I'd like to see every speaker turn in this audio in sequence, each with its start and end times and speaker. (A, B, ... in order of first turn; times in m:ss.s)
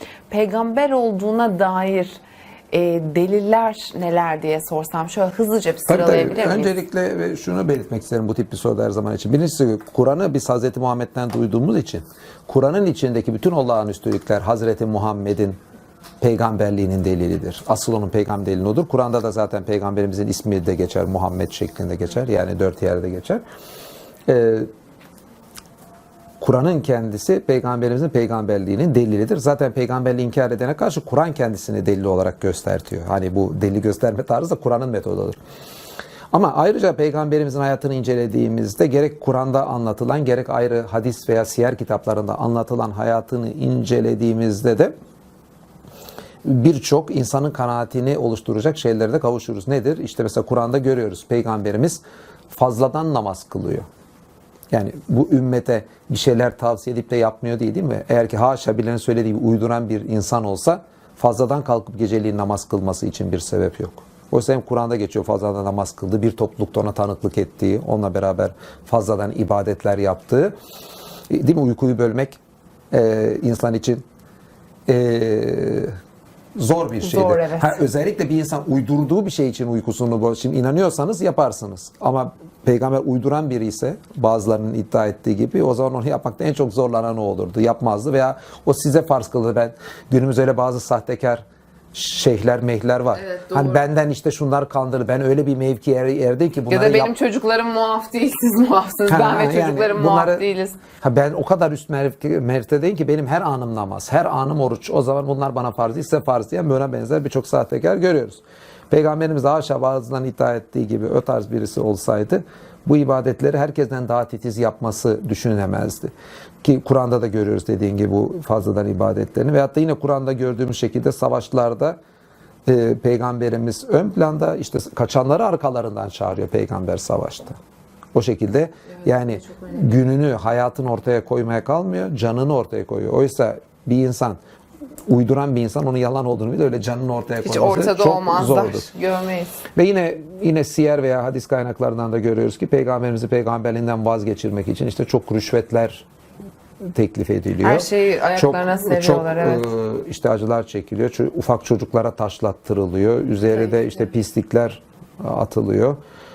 0:00.3-0:06.8 A
0:05.9-0:15.6 B
0:16.2-0:23.4 B
0:24.3-0:24.7 B
0:26.4-0:35.4 B
0:36.3-0:44.9 B
0:46.4-0:53.8 B
0:54.7-1:10.5 B
1:11.3-1:12.4 B
1:12.9-1:14.0 B
1:14.8-1:15.9 B
1:16.6-1:37.1 B
1:17.0-1:17.8 A
1:33.1-1:33.8 A
1:36.7-1:40.8 A
1:39.1-1:40.4 B
1:41.0-1:56.1 B
1:56.6-2:02.0 B
2:02.6-2:07.6 B
2:08.1-2:14.4 B
2:08.9-2:10.0 A
2:15.1-2:18.9 B
2:17.4-2:19.6 A
2:19.7-2:26.0 B
2:26.9-2:36.0 B
2:27.6-2:29.7 A
2:33.7-2:34.0 A